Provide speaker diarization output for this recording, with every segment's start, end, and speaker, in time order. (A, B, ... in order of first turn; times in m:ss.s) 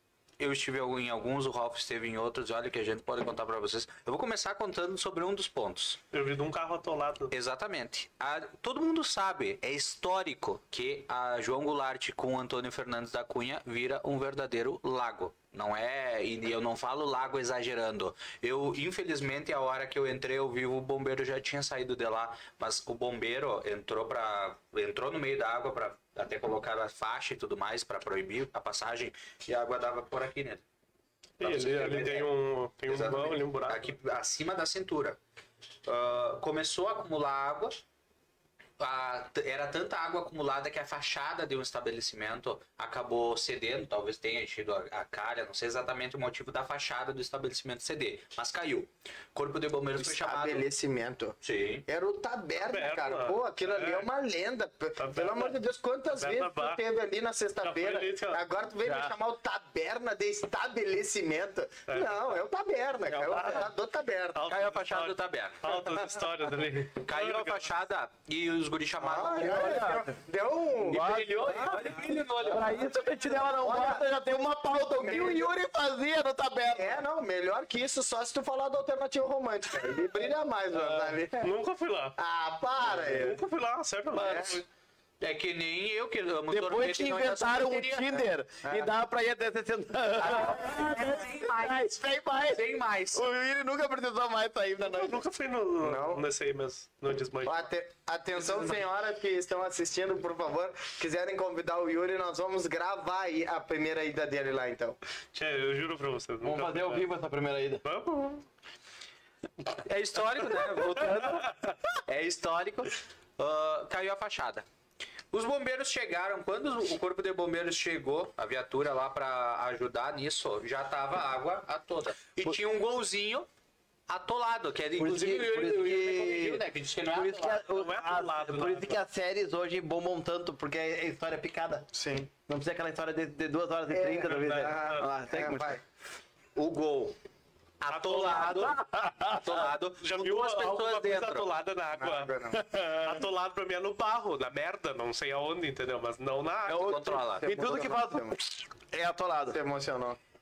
0:00.4-0:06.0 A
0:06.1-0:07.3 B
0:07.3-0:30.6 A
0:31.4-0:32.3 A
0:31.4-0:33.9 B
0:32.9-0:35.2 A
0:35.9-0:37.8 A
0:38.8-0:50.7 A
0:50.0-1:04.4 C
0:51.4-0:51.9 A
0:52.6-0:54.1 B
0:55.0-0:55.6 B
0:56.1-0:56.8 B
0:57.6-0:59.0 B
1:01.9-1:02.4 B
1:03.1-1:03.6 D
1:03.2-1:03.7 B
1:04.3-1:07.7 B
1:04.5-1:05.9 A
1:07.0-1:09.8 A
1:09.0-1:12.0 C
1:09.2-1:10.2 D
1:10.8-1:17.0 D
1:10.9-1:12.9 A
1:13.5-1:14.0 C
1:15.0-1:15.5 C
1:16.7-1:21.5 C
1:21.4-1:22.2 B
1:22.2-1:23.4 C
1:22.8-1:24.6 B
1:24.2-1:24.5 C
1:25.2-1:28.2 A
1:26.5-1:35.2 D
1:28.6-1:28.9 C
1:30.2-1:33.3 A
1:34.8-1:37.7 B
1:35.8-1:36.2 C
1:37.4-1:45.0 C
1:45.3-1:47.1 B
1:46.4-1:47.8 D
1:47.8-1:48.4 B
1:49.8-1:51.5 A
1:52.1-1:54.6 A
1:55.3-2:03.5 A
2:04.1-2:07.6 A
2:05.0-2:15.8 D
2:07.7-2:09.0 B
2:11.9-2:12.3 C
2:13.9-2:15.8 C
2:14.3-2:15.1 B
2:16.6-2:17.1 A
2:17.8-2:18.8 A
2:17.9-2:18.7 B
2:18.1-2:19.7 D
2:19.3-2:21.5 A
2:20.0-2:27.2 B
2:21.9-2:22.6 C
2:22.5-2:23.2 D
2:26.7-2:29.6 D
2:26.7-2:27.5 A
2:27.3-2:28.4 C
2:29.5-2:30.2 C